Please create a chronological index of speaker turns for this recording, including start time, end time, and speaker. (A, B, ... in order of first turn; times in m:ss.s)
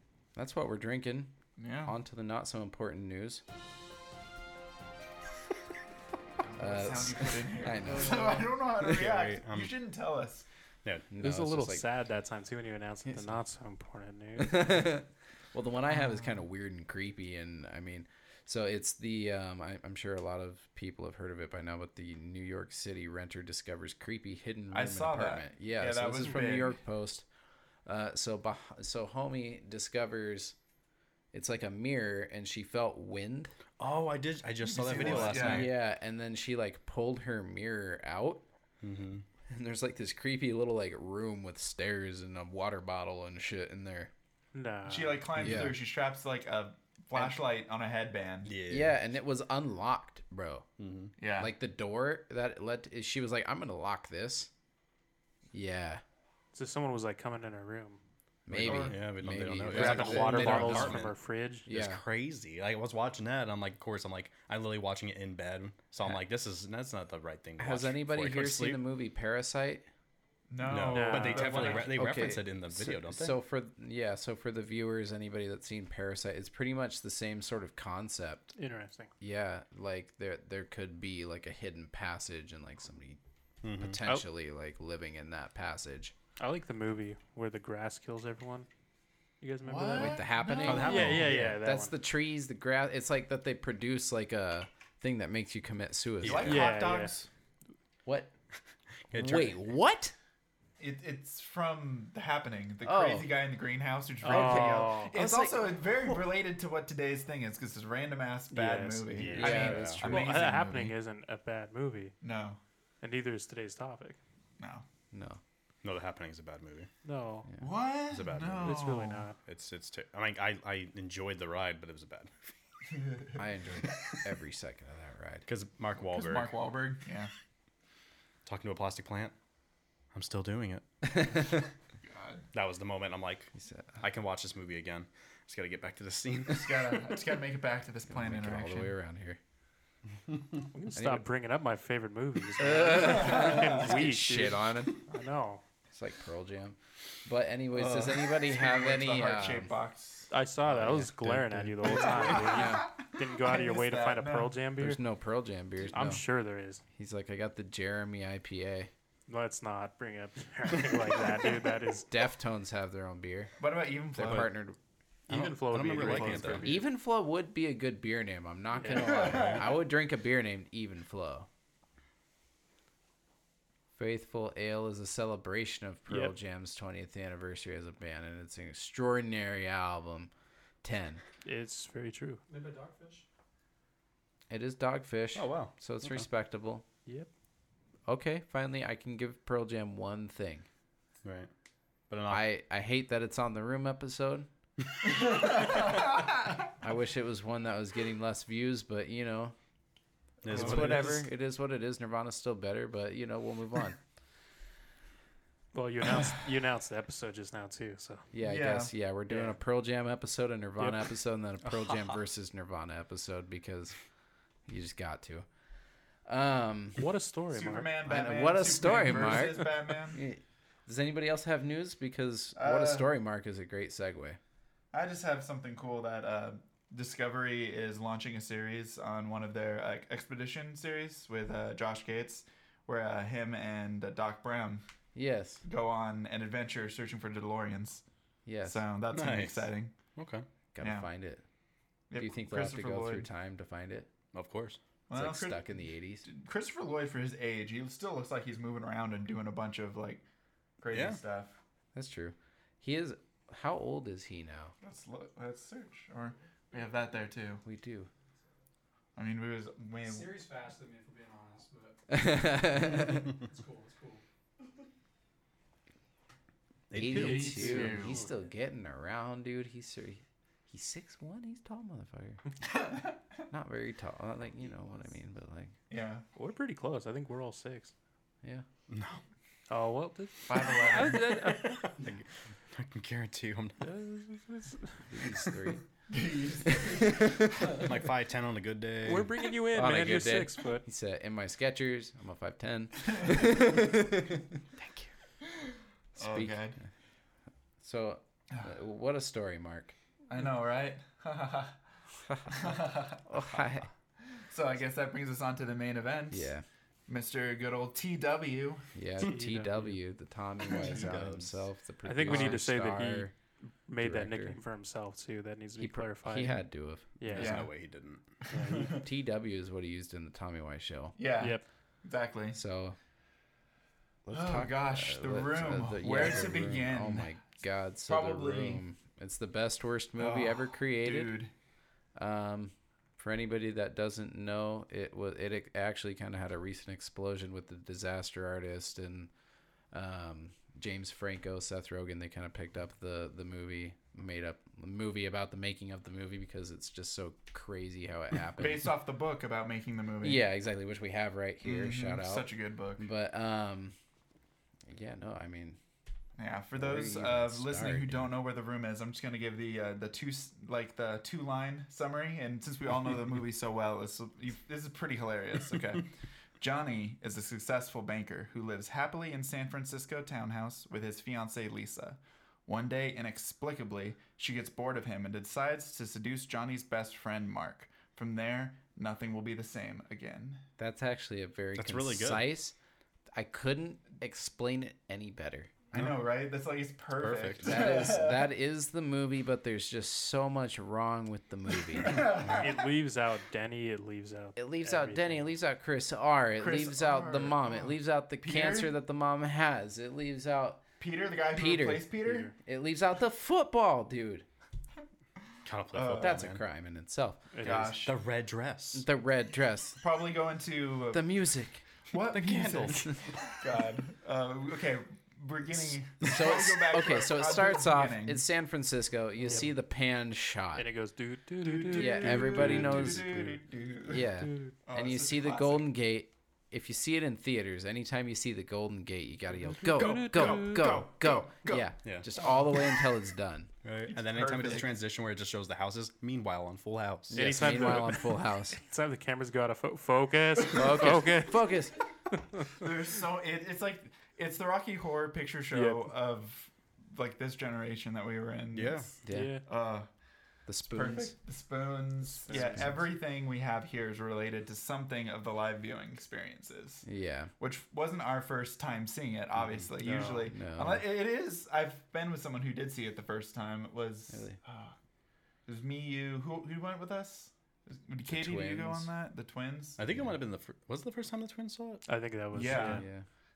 0:00.4-0:01.4 A
0:01.6-0:01.9 B
0:01.9-0:03.4 A
0:06.5-0:10.5 B
0:06.6-0:08.5 A
0:08.8-0:09.7 C
0:11.1-0:11.8 A
0:11.2-0:14.9 D
0:14.4-0:27.3 A
0:24.7-0:26.8 B
0:27.9-0:30.6 A
0:31.3-0:33.5 A
0:33.8-0:35.8 C
0:34.7-0:35.7 B
0:34.9-0:38.4 A
0:38.8-0:39.2 C
0:39.5-0:44.1 A
0:44.5-0:45.4 D
0:44.9-0:48.5 B
0:45.4-0:45.8 A
0:48.4-0:49.0 C
0:48.7-0:50.7 A
0:50.8-0:51.1 C
0:51.2-0:51.5 B
0:51.4-0:54.5 A
0:55.5-0:56.0 A
0:56.5-0:58.0 D
0:58.5-1:01.1 A
0:58.5-1:01.1 C
0:58.7-0:58.9 D
0:59.7-1:01.7 D
0:59.7-1:00.1 B
1:01.7-1:02.0 A
1:01.7-1:08.8 C
1:07.6-1:09.9 A
1:10.5-1:12.0 B
1:10.6-1:13.4 C
1:10.9-1:11.8 D
1:11.6-1:18.5 A
1:18.6-1:19.1 D
1:19.2-1:23.2 A
1:23.6-1:24.0 C
1:23.7-1:26.1 A
1:26.4-1:28.7 D
1:29.4-1:31.9 D
1:29.6-1:31.3 B
1:29.9-1:36.6 A
1:30.6-1:31.6 C
1:36.2-1:36.7 C
1:36.2-1:37.3 B
1:36.5-1:37.1 D
1:39.1-1:39.6 C
1:39.1-1:40.1 A
1:40.8-1:51.0 B
1:42.8-1:43.3 A
1:44.2-1:45.2 D
1:44.3-1:46.2 A
1:48.5-1:52.1 D
1:49.2-1:50.3 C
1:49.4-1:50.1 A
1:52.2-1:52.6 B
1:53.0-1:54.2 D
1:54.6-1:54.8 B
1:55.1-1:55.4 A
1:55.8-1:56.9 C
1:57.0-1:57.5 D
1:57.6-1:59.3 B
1:58.1-1:58.9 C
1:58.6-1:59.4 D
1:59.4-2:02.5 C
2:03.0-2:03.4 B
2:03.4-2:05.5 A
2:05.5-2:06.5 C
2:06.0-2:07.3 B
2:08.4-2:09.4 C
2:10.1-2:10.8 C
2:11.0-2:11.7 A
2:12.1-2:12.4 B
2:12.5-2:17.4 C
2:13.6-2:13.9 A
2:16.5-2:18.9 B
2:18.1-2:19.4 A
2:20.7-2:25.6 D
2:21.0-2:21.3 A
2:22.6-2:24.9 A
2:23.0-2:23.8 B
2:25.9-2:29.7 A
2:27.8-2:30.3 B
2:30.3-2:35.0 D
2:30.6-2:32.9 A
2:31.9-2:34.5 B
2:34.8-2:36.2 A
2:35.9-2:36.8 D
2:37.0-2:38.9 A
2:39.3-2:42.1 D
2:42.0-2:43.5 A
2:43.6-2:44.5 B
2:44.1-2:44.8 A
2:45.3-2:46.9 D
2:45.3-2:46.7 C
2:46.0-2:46.3 B
2:46.4-2:51.5 A
2:48.8-2:49.3 D
2:48.9-2:49.8 B
2:54.0-3:00.3 A
3:00.8-3:01.2 A
3:01.4-3:02.4 D
3:02.5-3:03.2 E
3:04.5-3:06.8 A
3:05.4-3:06.3 C
3:08.1-3:10.7 A
3:11.2-3:11.5 C
3:12.1-3:12.4 C
3:12.3-3:14.5 A
3:15.2-3:16.3 B
3:16.8-3:19.6 A
3:20.4-3:21.3 C
3:20.5-3:24.0 A
3:20.5-3:21.2 B
3:25.7-3:28.3 D
3:28.3-3:34.0 A
3:28.4-3:28.9 B
3:29.3-3:29.6 D
3:30.8-3:31.1 D
3:31.7-3:32.1 C
3:34.7-3:35.5 A
3:36.3-3:37.0 A
3:37.0-3:37.9 D
3:37.5-3:40.2 B
3:38.1-3:44.4 A
3:42.6-3:43.1 B
3:44.9-3:54.8 B
3:55.2-3:55.6 A
3:55.6-3:58.0 B
3:58.5-3:58.8 A
3:58.6-3:59.9 B
3:59.1-4:00.5 C
4:00.7-4:01.4 A
4:00.8-4:01.1 B
4:02.1-4:03.3 B
4:02.2-4:04.1 A
4:04.3-4:04.8 C
4:05.1-4:10.2 B
4:05.1-4:06.2 A
4:10.8-4:11.6 B
4:10.9-4:11.2 C
4:11.9-4:14.7 A
4:14.8-4:17.6 B
4:17.6-4:18.1 A
4:19.2-4:20.4 B
4:20.0-4:24.2 E
4:22.1-4:23.3 A
4:26.9-4:27.9 C
4:26.9-4:32.4 A
4:27.1-4:28.3 B
4:33.5-4:35.7 A
4:35.9-4:36.2 B
4:36.4-4:37.9 D
4:38.9-4:39.2 C
4:39.7-4:41.9 D
4:40.5-4:41.4 B
4:41.0-4:43.9 C
4:43.8-4:45.1 D
4:45.1-4:45.8 A
4:46.1-4:47.4 B
4:46.8-4:47.7 A
4:47.8-4:49.4 C
4:49.0-4:50.8 D
4:49.7-4:54.3 A
4:56.2-4:56.8 B
4:56.2-4:56.7 A
4:57.8-5:00.0 A
5:00.3-5:01.8 B
5:02.3-5:02.7 A
5:02.5-5:03.4 B
5:03.3-5:03.9 A
5:04.5-5:06.5 B
5:06.3-5:06.6 A
5:07.1-5:08.8 B
5:09.0-5:13.3 A
5:09.2-5:10.0 D
5:10.7-5:11.6 C
5:12.0-5:13.3 D
5:12.3-5:12.5 C
5:13.9-5:16.6 D
5:14.0-5:14.6 A
5:15.8-5:17.5 A
5:17.2-5:17.6 D
5:17.3-5:18.3 C
5:17.4-5:17.7 B
5:18.4-5:19.0 B
5:18.5-5:19.0 D
5:18.9-5:21.2 A
5:21.2-5:22.6 B
5:21.4-5:21.6 D
5:22.5-5:23.0 A
5:24.2-5:31.4 A
5:24.3-5:27.3 B
5:28.1-5:28.8 B
5:30.2-5:31.5 B
5:32.2-5:39.3 A
5:39.9-5:48.8 A
5:48.6-5:50.5 B
5:50.2-5:54.0 A
5:51.6-5:53.1 B
5:54.9-5:55.8 A
5:56.4-6:20.6 B
5:56.8-5:58.3 A
6:20.8-6:22.8 A
6:21.8-6:22.5 C
6:23.3-6:25.8 A
6:25.9-6:28.5 B
6:27.2-6:27.9 C
6:27.6-6:32.3 A
6:32.0-6:32.8 B
6:32.5-6:35.4 D
6:34.6-6:40.8 A
6:36.6-6:39.0 B
6:41.0-6:42.5 B
6:41.5-6:44.4 A
6:42.2-6:42.5 D
6:45.6-6:46.6 C
6:45.9-6:46.4 B
6:46.2-6:47.4 A
6:47.5-6:48.0 D
6:47.6-6:48.2 B
6:47.6-6:49.0 C
6:48.9-6:50.0 A
6:50.0-6:51.3 B
6:51.1-6:51.8 A
6:52.1-6:58.4 B
6:52.3-6:53.5 C
6:56.2-7:00.9 A
7:00.8-7:03.1 D
7:01.6-7:04.3 B
7:01.9-7:03.6 A
7:02.6-7:03.0 C
7:04.1-7:13.7 A
7:04.9-7:05.9 B
7:09.8-7:12.9 B
7:09.8-7:10.9 D
7:13.8-7:18.0 C
7:14.1-7:14.9 B
7:17.3-7:18.8 A
7:17.3-7:21.7 D
7:20.7-7:22.0 A
7:22.3-7:22.7 D
7:22.8-7:30.1 B
7:25.7-7:26.1 D
7:28.7-7:29.1 C
7:29.2-7:29.6 A
7:29.3-7:29.6 D
7:30.7-7:31.4 A
7:30.9-7:37.1 B
7:32.3-7:32.9 D
7:32.5-7:33.0 A
7:37.0-7:37.5 A
7:37.6-7:45.0 B
7:40.0-7:40.5 D
7:40.4-7:41.1 A
7:44.3-7:44.6 A
7:45.7-7:50.1 B
7:48.3-7:49.1 A
7:50.0-7:52.0 C
7:52.1-7:53.0 D
7:52.5-7:53.1 B
7:52.6-7:53.2 A